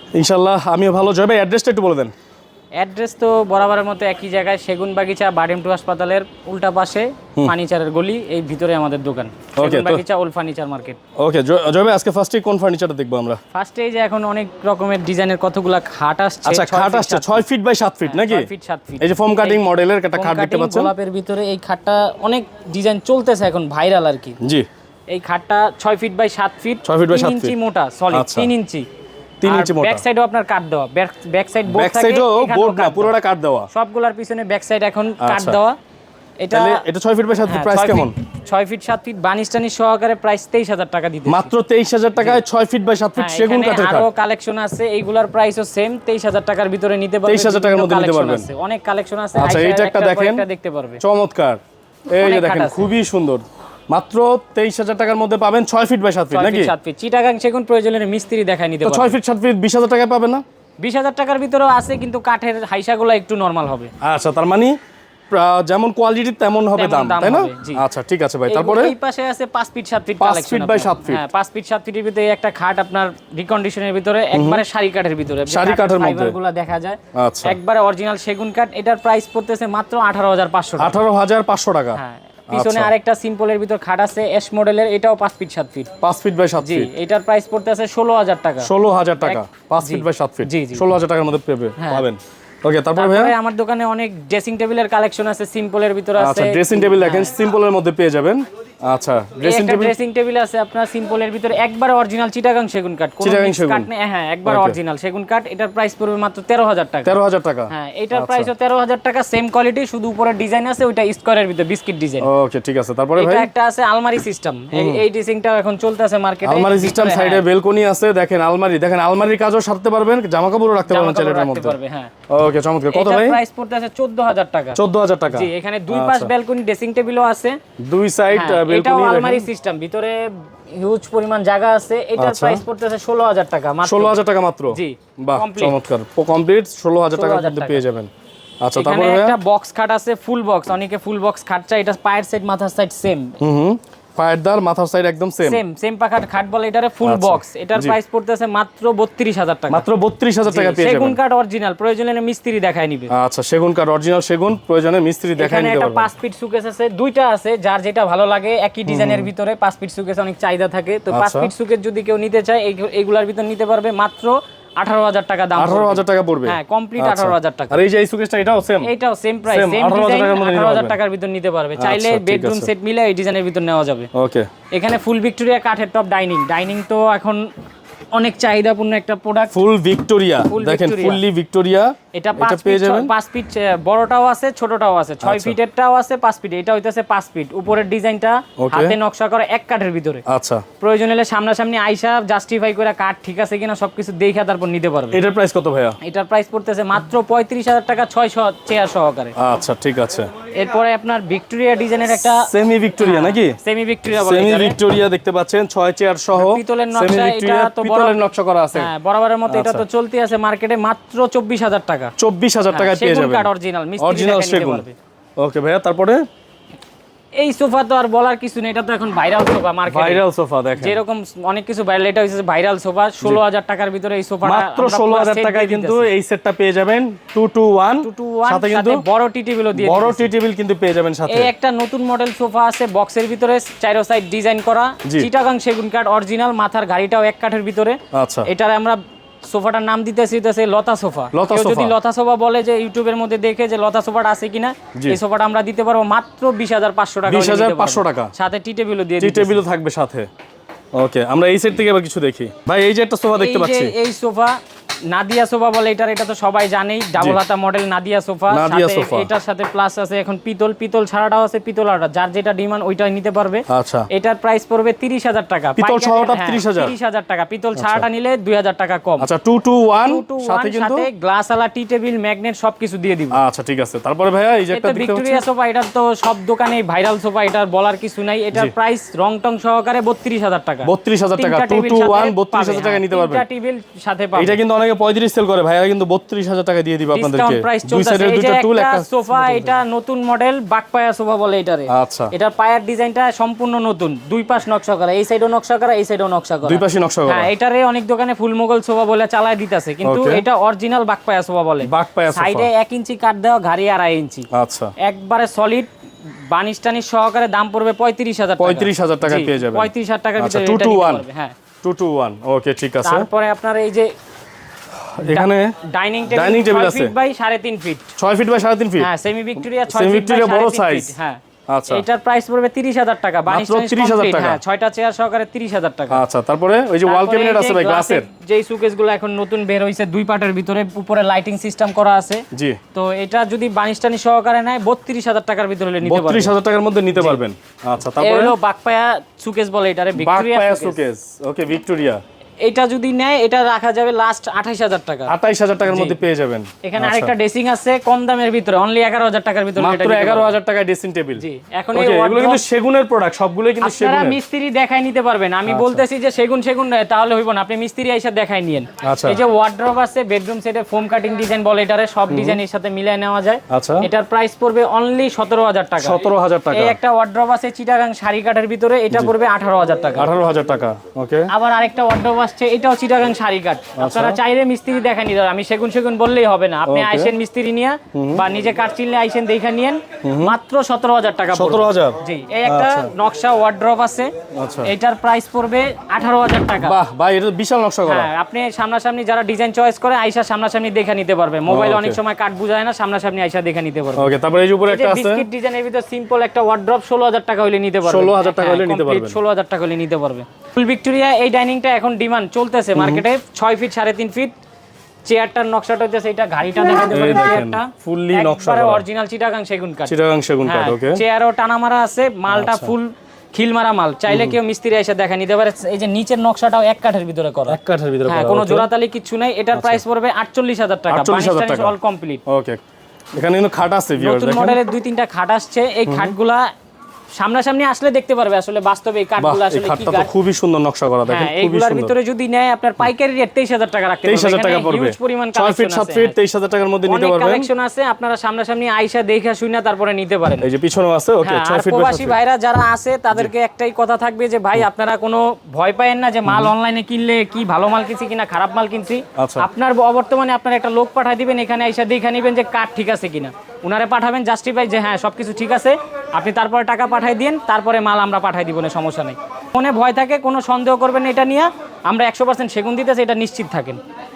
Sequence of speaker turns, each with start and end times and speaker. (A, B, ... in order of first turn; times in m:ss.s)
0:00.2-0:02.1 A
0:02.8-0:11.0 B
0:09.6-0:10.0 A
0:11.2-0:13.4 A
0:13.5-0:17.4 B
0:16.4-0:18.5 A
0:18.0-0:19.6 B
0:19.0-0:20.9 A
0:20.1-0:24.4 B
0:24.4-0:24.7 A
0:25.1-0:28.9 B
0:26.8-0:27.5 A
0:28.1-0:28.5 A
0:29.4-0:30.0 A
0:29.4-0:33.2 B
0:31.7-0:33.7 A
0:33.7-0:35.8 B
0:35.2-0:35.6 A
0:36.4-0:36.8 B
0:36.5-0:38.2 A
0:37.5-0:41.5 B
0:41.3-0:44.1 A
0:42.2-0:42.4 B
0:43.2-0:51.0 B
0:47.3-0:48.5 A
0:49.4-0:50.4 A
0:51.0-0:56.7 A
0:52.2-0:52.9 B
0:56.3-0:59.2 B
0:58.8-1:00.4 A
1:00.8-1:03.9 B
1:04.0-1:04.7 A
1:05.3-1:09.0 A
1:06.7-1:07.8 B
1:08.5-1:21.0 B
1:10.2-1:11.2 A
1:14.3-1:14.6 A
1:15.5-1:16.4 A
1:17.2-1:17.6 A
1:20.8-1:22.0 A
1:22.0-1:25.9 B
1:22.5-1:22.9 A
1:26.0-1:26.9 A
1:26.6-1:30.8 B
1:28.6-1:33.3 A
1:31.8-1:32.0 B
1:33.0-1:37.3 B
1:36.2-1:40.0 A
1:39.4-1:47.2 B
1:43.2-1:43.9 A
1:44.4-1:44.8 A
1:47.0-1:48.5 A
1:47.7-1:52.3 B
1:52.2-1:53.5 A
1:53.2-1:57.4 B
1:54.7-1:55.0 A
1:56.4-2:01.8 A
2:00.9-2:02.1 B
2:02.3-2:03.4 A
2:02.9-2:07.6 B
2:04.8-2:06.3 A
2:07.8-2:09.5 A
2:08.3-2:15.8 B
2:12.2-2:12.6 A
2:13.8-2:18.1 A
2:17.1-2:17.8 B
2:18.6-2:19.4 A
2:18.8-2:23.4 B
2:23.4-2:25.6 A
2:25.4-2:29.8 B
2:27.0-2:28.0 A
2:29.7-2:31.2 A
2:30.4-2:33.1 B
2:33.1-2:36.1 A
2:35.4-2:47.8 B
2:38.9-2:39.3 A
2:41.1-2:41.5 A
2:45.6-2:48.9 A
2:48.8-2:54.1 B
2:49.5-2:51.0 A
2:51.8-2:52.7 A
2:54.1-2:54.5 A
2:54.7-2:57.5 B
2:58.1-2:59.5 B
2:59.5-3:03.1 A
3:00.4-3:01.2 B
3:02.1-3:10.2 B
3:05.2-3:05.6 A
3:08.6-3:09.0 A
3:10.3-3:10.6 A
3:10.8-3:15.2 B
3:15.1-3:16.0 A
3:16.0-3:19.4 B
3:19.4-3:20.3 A
3:20.5-3:22.5 B
3:22.5-3:23.6 A
3:23.0-3:24.8 B
3:24.1-3:28.9 A
3:26.3-3:28.2 B
3:28.7-3:32.2 B
3:29.5-3:29.8 A
3:32.2-3:34.8 A
3:32.7-3:35.0 B
3:35.4-3:36.2 A
3:37.4-3:40.2 B
3:39.9-3:41.0 A
3:40.8-3:46.1 B
3:44.4-3:49.0 A
3:48.0-3:50.3 B
3:49.8-3:51.5 A
3:51.3-4:09.6 B
3:58.1-3:58.5 A
4:01.3-4:01.9 A
4:07.3-4:08.3 A
4:09.2-4:10.3 A
4:11.0-4:13.9 A
4:13.4-4:29.3 B
4:17.2-4:17.4 A
4:18.5-4:19.3 A
4:23.7-4:24.1 A
4:25.8-4:26.9 A
4:27.8-4:28.0 A
4:29.2-4:31.1 A
4:30.0-4:33.4 B
4:33.3-4:35.4 A
4:34.7-4:44.6 B
4:40.8-4:43.4 A
4:44.4-4:49.8 A
4:47.1-5:04.5 B
4:51.9-4:52.3 A
4:56.6-4:57.5 A
5:00.0-5:00.4 A
5:01.8-5:02.7 A
5:04.5-5:04.9 A
5:05.0-5:05.9 B
5:06.5-5:11.6 B
5:08.6-5:11.2 A
5:11.8-5:13.3 A
5:13.0-5:14.1 B
5:15.1-5:15.8 A
5:15.2-5:18.1 B
5:16.3-5:17.1 A
5:18.2-5:19.1 A
5:19.0-5:26.2 B
5:19.9-5:21.1 A
5:21.7-5:22.0 A
5:23.5-5:24.6 A
5:26.1-5:28.3 A
5:27.0-5:36.6 B
5:32.5-5:32.8 A
5:36.0-5:38.6 A
5:37.2-5:37.4 B
5:38.2-5:41.0 B
5:40.2-5:42.2 A
5:42.6-5:45.3 B
5:45.3-5:47.3 A
5:45.8-5:46.2 B
5:46.8-5:50.6 B
5:49.8-5:54.4 A
5:51.4-5:52.6 B
5:53.8-6:10.3 B
5:55.7-5:56.0 A
5:59.0-5:59.4 A
6:02.3-6:02.6 A
6:03.7-6:04.1 A
6:06.0-6:07.0 A
6:10.2-6:11.5 A
6:11.5-6:24.3 B
6:14.0-6:14.4 A
6:16.9-6:17.3 A
6:18.1-6:18.4 A
6:20.2-6:20.6 A
6:21.5-6:23.1 A
6:24.6-6:24.9 A
6:24.8-6:27.0 B
6:26.8-6:28.3 A
6:28.0-6:34.3 B
6:31.7-6:32.2 A
6:34.2-6:35.4 A
6:34.9-6:44.6 B
6:38.0-6:39.4 A
6:43.0-6:43.2 A
6:45.3-7:02.4 B
6:47.1-6:49.0 A
6:50.1-6:51.2 A
6:52.5-6:52.9 A
6:54.3-6:54.6 A
6:57.7-6:58.9 A
6:59.8-7:00.0 A
7:01.1-7:01.9 A
7:02.5-7:02.8 A
7:03.4-7:04.8 A
7:04.2-7:06.7 B
7:06.1-7:06.3 A
7:07.4-7:10.3 B
7:09.4-7:12.2 A
7:11.3-7:16.4 B
7:14.2-7:17.7 A
7:17.0-7:20.7 B
7:20.6-7:22.4 A
7:21.4-7:44.0 B
7:26.5-7:26.7 A
7:29.4-7:29.7 A